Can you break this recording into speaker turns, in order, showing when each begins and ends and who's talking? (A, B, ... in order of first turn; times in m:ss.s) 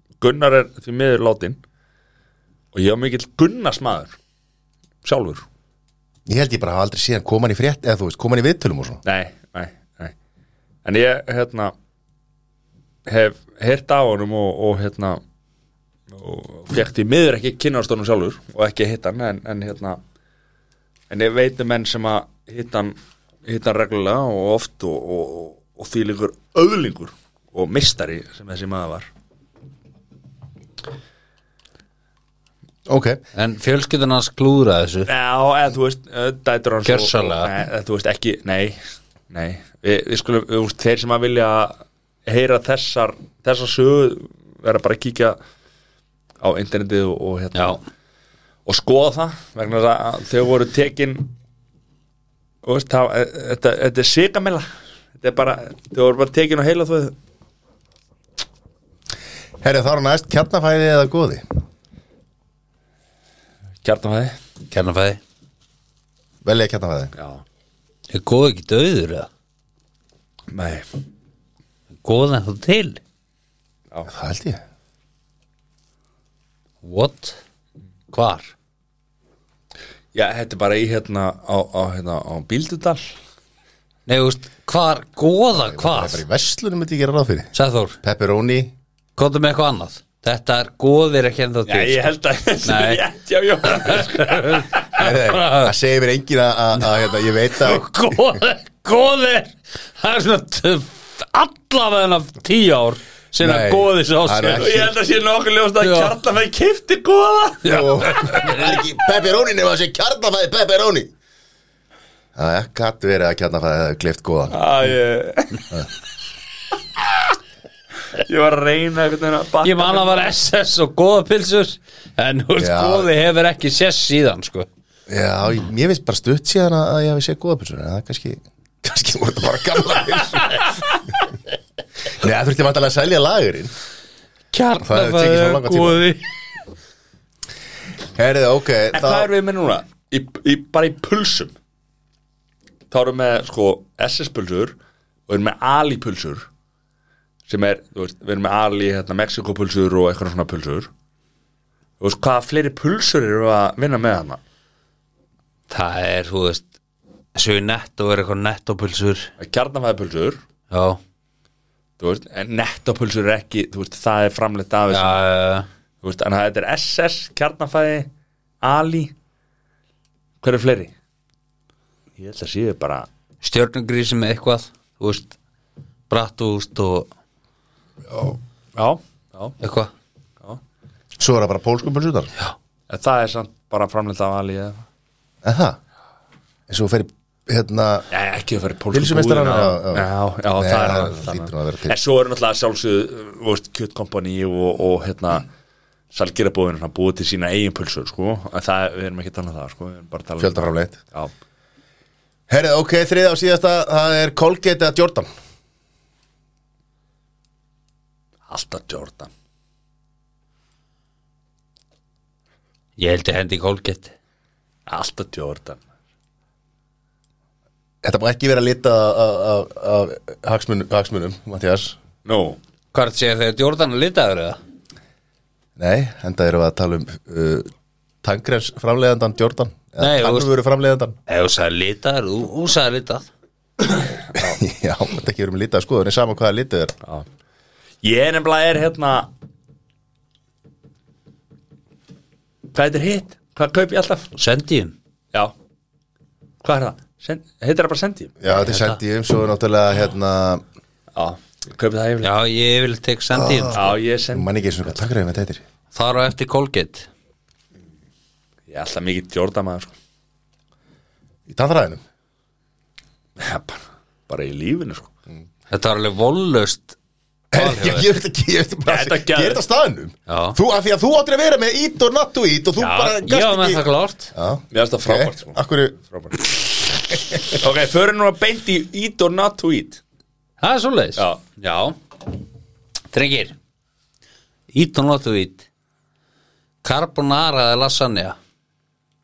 0:00.2-0:01.6 A
0:02.7-0:04.2 A
0:05.0-0:05.4 A
0:06.3-0:09.0 B
0:09.0-0:10.1 A
0:10.8-0:11.7 A
0:13.1-0:15.2 A
0:16.1-0:20.0 A
0:21.1-0:29.1 A
0:32.8-0:33.2 B
0:33.3-0:35.1 C
0:35.1-0:38.8 A
0:36.8-0:37.5 C
0:39.3-0:45.4 A
0:46.4-0:47.8 A
0:47.5-0:47.8 C
0:48.6-0:51.3 A
0:52.6-0:54.6 A
0:55.2-0:57.1 A
0:59.6-1:01.4 B
1:03.8-1:04.4 A
1:04.7-1:05.2 C
1:06.4-1:07.1 B
1:07.2-1:07.4 A
1:08.1-1:09.3 C
1:10.5-1:10.9 A
1:12.0-1:13.0 C
1:14.1-1:14.6 B
1:16.8-1:17.4 C
1:18.1-1:18.5 C
1:20.1-1:23.1 A
1:24.1-1:26.2 C
1:25.6-1:28.7 B
1:27.5-1:28.0 C
1:29.2-1:32.0 C
1:31.7-1:35.0 A
1:32.6-1:33.0 C
1:33.7-1:35.7 C
1:35.0-1:37.8 B
1:37.5-1:44.7 C
1:43.4-1:44.9 B
1:44.5-1:48.6 A
1:45.8-1:46.2 C
1:47.6-1:51.1 B
1:47.7-1:48.7 C
1:52.3-1:54.6 B
1:54.5-1:55.7 A
1:58.1-2:00.3 A
1:59.6-2:04.7 C
2:02.6-2:03.1 B
2:05.1-2:10.6 B
2:12.1-2:13.7 B
2:14.5-2:16.3 C
2:14.8-2:16.0 B
2:18.1-2:19.3 B
2:18.9-2:21.5 A
2:22.9-2:24.7 A
2:25.3-2:26.5 A
2:27.5-2:30.9 A
2:32.0-2:34.4 A
2:35.7-2:36.7 C
2:37.3-2:39.3 C
2:39.4-2:40.4 A
2:40.7-2:41.0 C
2:42.0-2:45.2 A
2:44.9-2:45.7 C
2:46.0-2:48.1 A
2:48.6-2:49.1 A
2:50.4-2:50.9 A
2:52.2-2:53.1 A
2:53.4-2:55.3 C
2:56.1-2:57.1 C
2:58.1-2:59.6 A
2:59.6-2:59.9 C
3:01.2-3:02.3 B
3:02.9-3:04.8 A
3:05.4-3:05.8 B
3:06.7-3:08.1 B
3:08.1-3:15.5 A
3:08.9-3:12.0 B
3:16.1-3:21.3 A
3:20.4-3:21.0 B
3:22.5-3:25.3 B
3:28.5-3:29.3 A
3:33.0-3:34.1 C
3:34.8-3:35.8 A
3:38.0-3:42.0 B
3:42.2-3:42.6 A
3:42.9-3:44.6 C
3:45.8-3:47.7 B
3:48.2-3:51.2 B
3:50.0-3:50.5 C
3:51.3-3:53.2 C
3:54.3-3:56.9 B
3:58.0-3:59.3 A
4:02.7-4:04.3 A
4:04.4-4:04.9 C
4:06.6-4:08.3 A
4:08.4-4:10.6 B
4:08.5-4:09.0 C
4:11.1-4:12.3 A
4:12.2-4:13.8 C
4:13.3-4:15.6 B
4:13.7-4:14.5 A
4:15.9-4:17.1 C
4:18.7-4:19.9 A
4:21.5-4:22.0 B
4:23.4-4:25.1 A
4:25.7-4:27.0 C
4:27.5-4:33.8 B
4:27.5-4:28.1 C
4:28.8-4:29.6 A
4:30.3-4:30.6 C
4:32.8-4:34.3 C
4:34.3-4:36.0 B
4:34.7-4:35.6 A
4:36.1-4:36.4 A
4:37.1-4:37.5 B
4:37.5-4:40.0 A
4:40.6-4:42.0 C
4:43.1-4:43.5 C
4:44.7-4:45.6 C
4:46.8-4:48.4 C